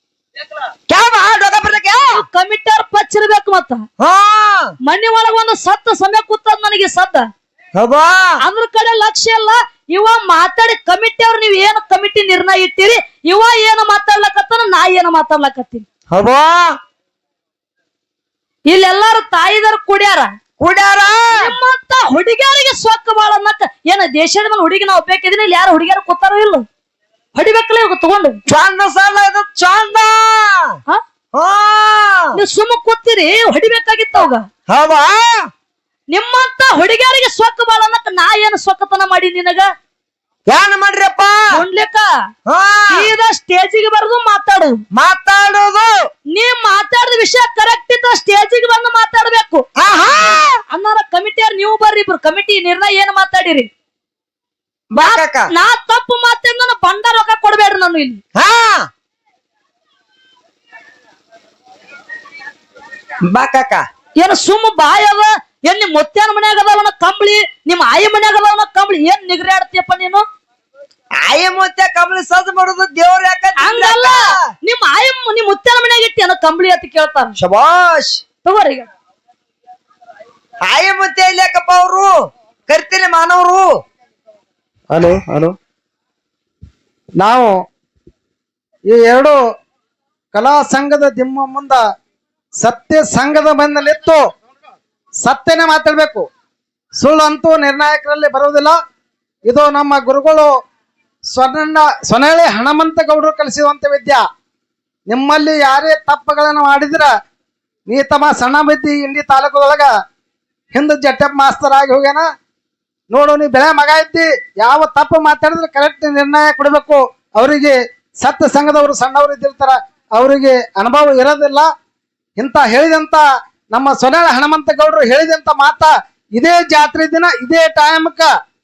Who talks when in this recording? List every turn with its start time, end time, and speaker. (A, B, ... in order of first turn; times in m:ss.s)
0:00.9-0:02.2 A
0:02.1-0:03.8 B
0:04.0-0:04.7 A
0:04.8-0:07.3 B
0:07.8-0:08.3 A
0:08.4-0:15.8 B
0:16.1-0:16.8 A
0:18.7-0:20.3 B
0:20.6-0:21.5 A
0:21.3-0:26.6 B
0:27.4-0:28.4 B
0:28.5-0:30.7 A
0:31.3-0:32.3 A
0:32.4-0:34.5 B
0:34.7-0:35.5 A
0:36.1-0:39.7 B
0:40.5-0:41.6 A
0:41.5-0:42.1 B
0:42.5-0:43.0 A
0:42.9-0:44.8 B
0:44.9-0:45.9 A
0:46.3-0:49.6 B
0:49.8-0:50.6 A
0:50.7-0:53.7 B
0:54.9-0:55.5 A
0:55.0-0:58.2 B
0:58.4-0:58.9 A
1:03.2-1:03.8 A
1:04.2-1:10.2 B
1:11.2-1:14.2 A
1:13.6-1:17.3 B
1:17.4-1:18.2 A
1:18.4-1:18.9 B
1:20.6-1:22.1 A
1:22.7-1:23.7 A
1:24.9-1:25.5 C
1:27.2-1:27.6 C
1:28.9-1:29.4 C
1:30.3-1:31.8 C
1:32.6-1:34.2 C
1:35.2-1:36.3 C
1:37.0-1:38.8 C
1:39.5-1:40.5 C
1:41.3-1:44.2 C
1:45.1-1:47.1 C
1:47.9-1:49.9 C
1:50.7-1:52.3 C
1:53.1-2:01.7 C
2:02.4-2:08.3 C